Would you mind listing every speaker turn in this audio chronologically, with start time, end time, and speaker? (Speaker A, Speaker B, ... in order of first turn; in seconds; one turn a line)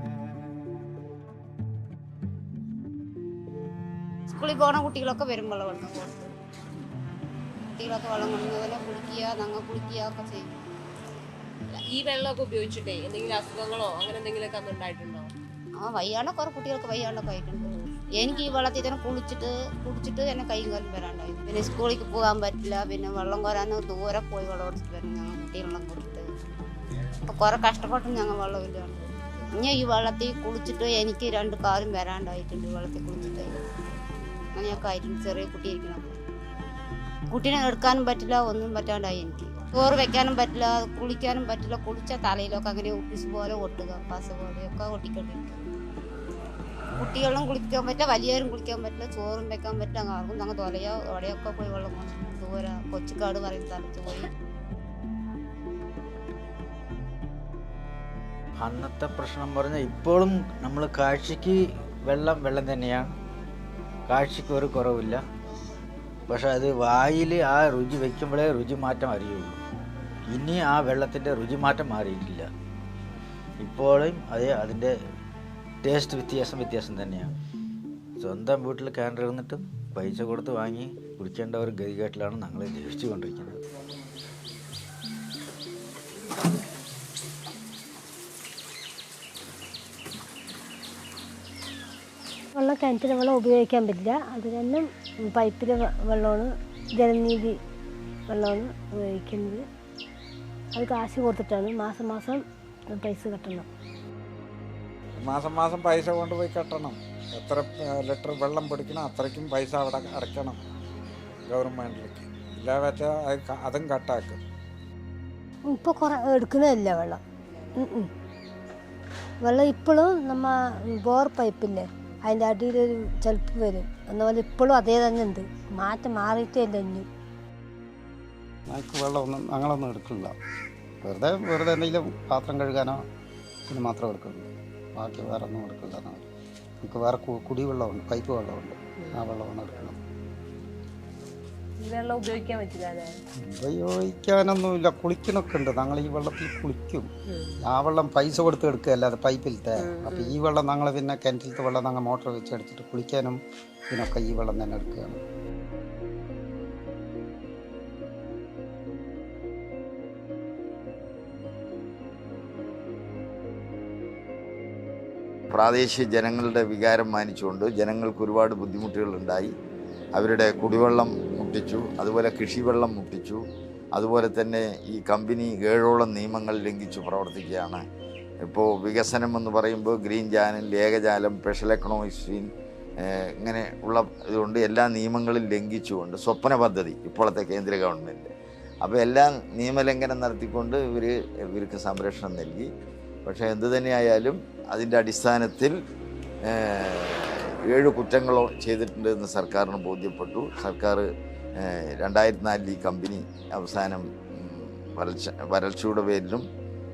Speaker A: 4.3-6.3
Speaker A: 7.7-10.6
Speaker B: 11.7-15.3
Speaker A: 15.8-26.3
Speaker A: 27.2-29.1
Speaker A: 29.6-33.5
Speaker A: 34.5-36.1
Speaker A: 37.3-45.6
Speaker A: 47.0-54.3
Speaker C: 58.6-63.1
Speaker C: 64.1-65.2
Speaker C: 66.3-69.6
Speaker C: 70.3-72.5
Speaker C: 73.6-74.9
Speaker C: 75.8-77.3
Speaker C: 78.2-83.6
Speaker D: 92.5-97.5
Speaker D: 98.3-99.6
Speaker D: 100.7-102.4
Speaker D: 102.9-103.7
Speaker E: 105.2-110.6
Speaker E: 111.5-114.4
Speaker D: 115.7-117.2
Speaker D: 117.8-118.1
Speaker D: 119.4-127.1
Speaker F: 128.7-130.3
Speaker F: 131.0-133.0
Speaker F: 133.7-136.3
Speaker F: 136.8-140.0
Speaker B: 141.8-143.1
Speaker F: 143.4-147.1
Speaker F: 147.6-155.2
Speaker B: 149.8-150.3
Speaker G: 165.5-169.5
Speaker G: 170.1-173.4
Speaker G: 173.9-177.8
Speaker G: 178.4-188.3
Speaker G: 188.8-192.7
Speaker G: 193.2-195.8
Speaker G: 196.4-201.1
Speaker G: 201.6-206.4